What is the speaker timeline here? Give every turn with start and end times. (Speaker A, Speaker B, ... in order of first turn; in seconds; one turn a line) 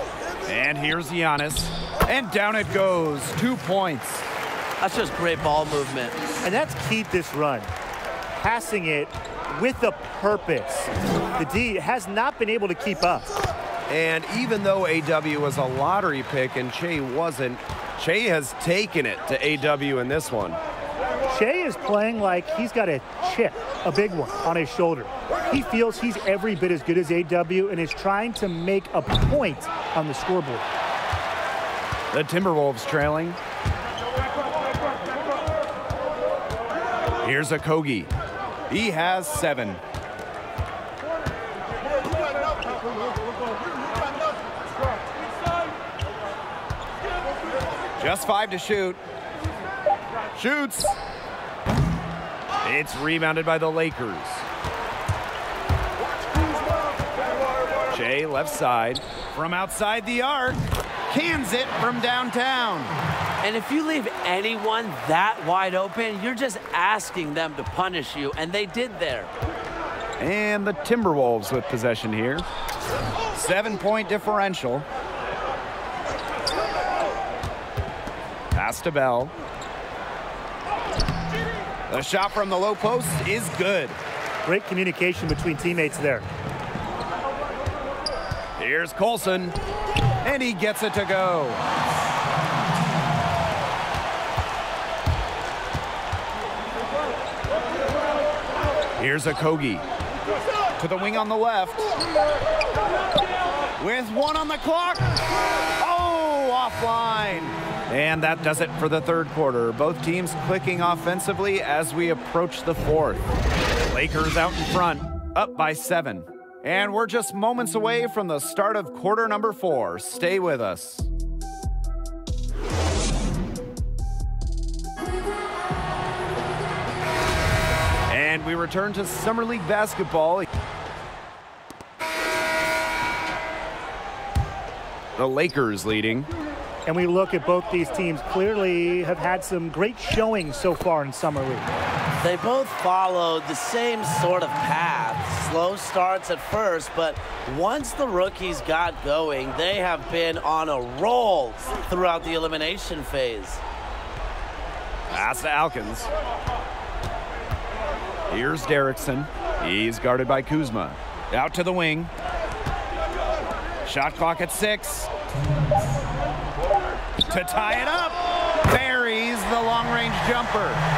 Speaker A: 0.5-4.2
Speaker B: 4.8-6.2
Speaker C: 6.4-7.7
Speaker C: 8.4-13.3
Speaker A: 13.9-20.6
Speaker C: 21.3-30.7
Speaker A: 32.1-33.4
Speaker A: 37.2-38.1
Speaker A: 38.7-39.8
Speaker A: 48.0-49.0
Speaker A: 50.3-51.0
Speaker A: 52.6-54.5
Speaker A: 57.9-62.9
Speaker B: 63.4-69.3
Speaker A: 70.2-72.5
Speaker A: 73.3-74.9
Speaker A: 78.5-79.3
Speaker A: 81.9-84.0
Speaker C: 84.5-86.3
Speaker A: 88.6-89.6
Speaker A: 90.2-91.6
Speaker A: 99.0-99.8
Speaker A: 100.8-101.9
Speaker A: 103.8-105.1
Speaker A: 105.8-113.2
Speaker A: 113.9-121.1
Speaker A: 128.1-130.5
Speaker A: 135.2-136.3
Speaker C: 136.9-141.7
Speaker B: 142.2-153.6
Speaker A: 155.1-156.1
Speaker A: 158.3-162.1
Speaker A: 163.9-165.1
Speaker A: 167.3-170.8